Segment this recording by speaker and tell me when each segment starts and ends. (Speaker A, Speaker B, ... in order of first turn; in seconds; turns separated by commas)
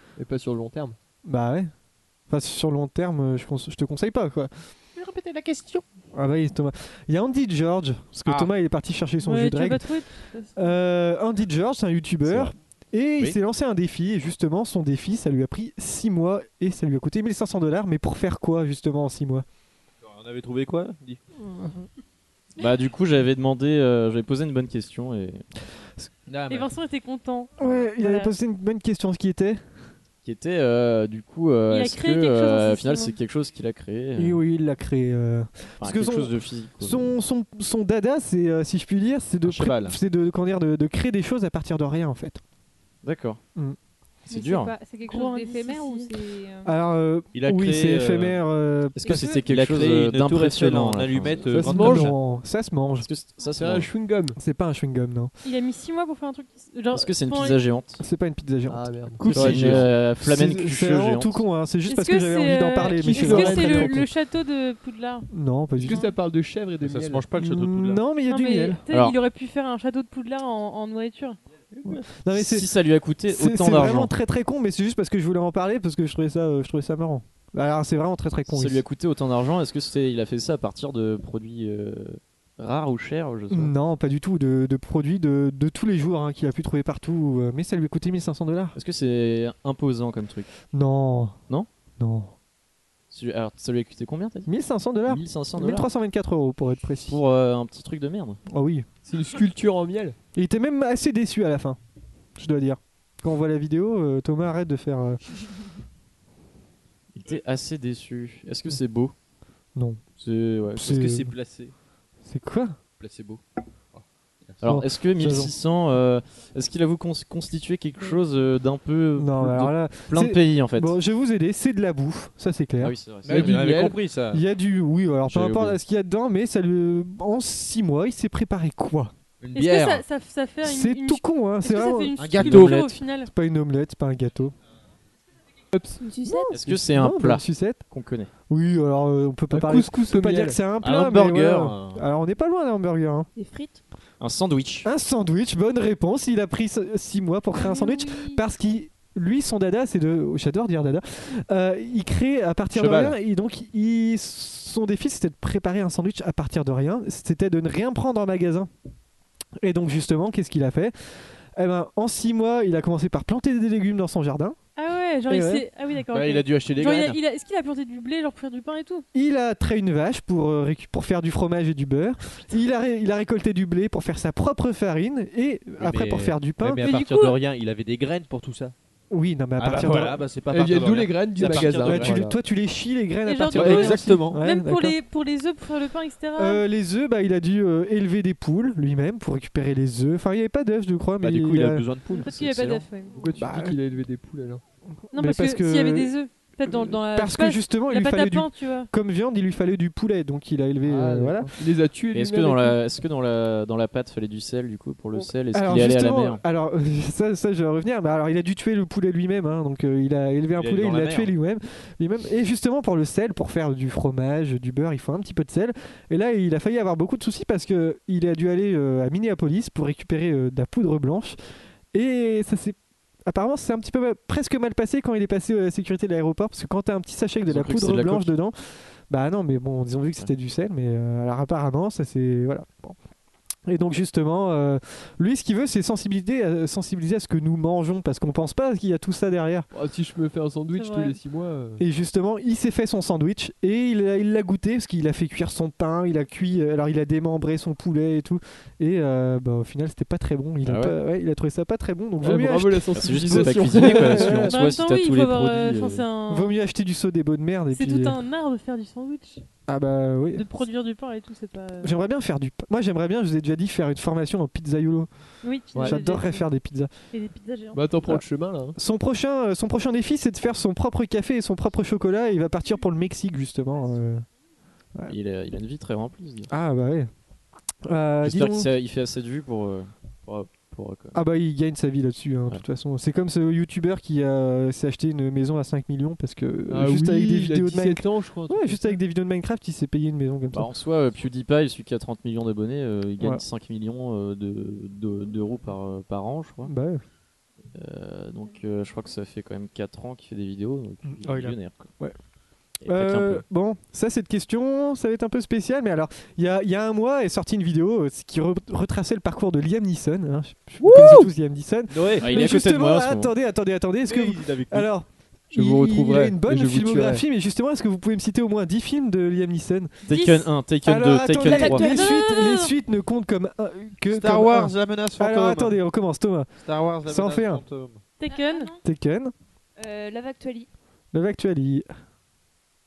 Speaker A: 0.2-0.9, Speaker B: 1.2-1.7, Speaker B: 2.3-4.5, Speaker C: 5.0-5.8, Speaker B: 6.1-9.9, Speaker C: 8.2-8.5, Speaker D: 9.2-10.6, Speaker B: 10.6-19.4, Speaker C: 20.0-21.2, Speaker B: 21.4-21.9, Speaker E: 22.6-25.4, Speaker C: 26.3-26.7, Speaker D: 26.5-28.3, Speaker B: 27.6-29.6, Speaker E: 30.2-34.4, Speaker D: 31.7-33.1, Speaker B: 34.1-42.4, Speaker E: 35.8-37.1, Speaker C: 39.4-40.0, Speaker E: 43.0-43.4, Speaker E: 44.3-44.7, Speaker F: 44.3-46.7, Speaker D: 45.0-46.1, Speaker B: 46.6-49.4, Speaker C: 47.3-48.4, Speaker E: 49.0-51.5, Speaker F: 49.0-49.5, Speaker C: 49.3-52.1, Speaker A: 51.5-52.1, Speaker B: 51.5-53.1, Speaker E: 53.0-53.9, Speaker A: 53.5-54.4, Speaker B: 54.4-55.3, Speaker D: 55.4-57.6, Speaker E: 56.9-58.0, Speaker B: 58.0-64.1, Speaker A: 58.7-59.9, Speaker E: 59.2-61.4, Speaker D: 61.8-65.3, Speaker A: 63.0-64.0, Speaker B: 65.3-66.1, Speaker A: 65.8-67.2, Speaker C: 66.8-68.0, Speaker B: 67.4-68.8, Speaker D: 68.3-71.4, Speaker E: 68.9-69.2, Speaker B: 71.8-72.7, Speaker E: 72.3-74.1, Speaker B: 73.3-78.8, Speaker E: 78.5-83.7, Speaker B: 83.5-88.8, Speaker E: 88.7-90.5, Speaker B: 90.7-91.4, Speaker B: 92.0-92.3, Speaker E: 93.1-94.5, Speaker B: 94.5-97.2, Speaker E: 95.1-95.9, Speaker E: 97.0-98.4, Speaker B: 98.5-98.9, Speaker A: 99.0-100.2, Speaker B: 100.3-101.8, Speaker B: 102.4-105.2, Speaker E: 107.1-109.1, Speaker B: 109.7-110.0, Speaker E: 110.2-111.0, Speaker B: 110.8-111.3, Speaker C: 110.8-111.7, Speaker B: 112.2-112.8, Speaker C: 113.0-113.4, Speaker C: 113.9-114.6, Speaker E: 114.6-121.0, Speaker B: 114.6-115.5, Speaker B: 119.2-123.0, Speaker E: 122.8-123.9, Speaker C: 123.2-124.4, Speaker A: 123.3-124.0, Speaker B: 124.3-129.1, Speaker C: 125.3-125.8, Speaker C: 129.4-130.0, Speaker D: 129.5-133.3, Speaker B: 130.6-134.5, Speaker C: 132.2-132.7, Speaker E: 132.4-132.9, Speaker A: 135.7-136.0, Speaker F: 136.0-136.5, Speaker B: 136.2-137.8, Speaker E: 136.5-138.3, Speaker B: 138.5-143.3, Speaker A: 139.5-140.6, Speaker C: 140.8-142.0, Speaker F: 143.4-143.8, Speaker E: 144.2-144.9, Speaker B: 144.8-158.7, Speaker D: 147.6-148.4, Speaker E: 152.7-153.2, Speaker B: 159.6-164.6, Speaker D: 164.8-169.0, Speaker B: 165.3-165.7, Speaker C: 166.1-167.2, Speaker B: 169.1-176.9, Speaker C: 175.8-178.7, Speaker D: 176.8-177.4, Speaker B: 179.1-180.3, Speaker C: 179.6-182.2, Speaker A: 180.5-182.4, Speaker B: 181.4-185.0, Speaker D: 183.2-186.6, Speaker C: 183.5-184.4, Speaker B: 186.3-191.8, Speaker C: 191.2-192.3, Speaker D: 192.1-193.1, Speaker E: 192.2-192.9, Speaker A: 193.1-194.6, Speaker B: 193.4-193.8, Speaker B: 195.1-196.1, Speaker D: 195.1-198.9, Speaker B: 196.6-201.5, Speaker A: 200.8-202.8, Speaker E: 202.1-206.4, Speaker B: 205.2-221.4, Speaker C: 210.6-211.3, Speaker B: 221.9-232.9, Speaker E: 227.4-228.3, Speaker B: 233.7-239.7, Speaker A: 239.7-241.8, Speaker D: 240.8-241.2, Speaker B: 241.8-254.6, Speaker E: 250.6-250.9, Speaker A: 252.2-254.3, Speaker E: 252.9-256.1, Speaker D: 254.4-256.6, Speaker B: 256.3-258.2, Speaker D: 257.7-259.4, Speaker B: 259.7-260.4, Speaker D: 260.3-261.9, Speaker B: 261.8-265.1, Speaker D: 265.4-266.5, Speaker A: 265.7-266.0, Speaker B: 265.7-266.9, Speaker D: 267.1-267.8, Speaker A: 267.7-268.8, Speaker B: 268.8-274.2, Speaker E: 275.1-276.5, Speaker B: 276.5-277.1, Speaker B: 277.8-278.7, Speaker E: 278.2-281.2, Speaker B: 281.1-290.7, Speaker A: 286.7-289.0, Speaker E: 290.5-296.7, Speaker B: 296.6-297.0, Speaker E: 297.7-301.9, Speaker B: 301.1-302.2, Speaker E: 302.8-303.4, Speaker B: 302.9-320.0, Speaker A: 310.8-311.3, Speaker C: 311.9-312.3, Speaker E: 312.2-313.3, Speaker C: 314.1-314.9, Speaker A: 315.5-317.2, Speaker D: 320.1-320.5, Speaker E: 320.1-321.9, Speaker B: 320.8-326.5, Speaker F: 321.4-322.1, Speaker D: 321.7-322.7, Speaker C: 324.1-325.8, Speaker C: 326.6-328.0, Speaker B: 327.0-327.6, Speaker D: 328.2-328.7, Speaker F: 328.3-328.8, Speaker B: 328.8-329.3, Speaker F: 329.8-330.7, Speaker B: 331.1-331.9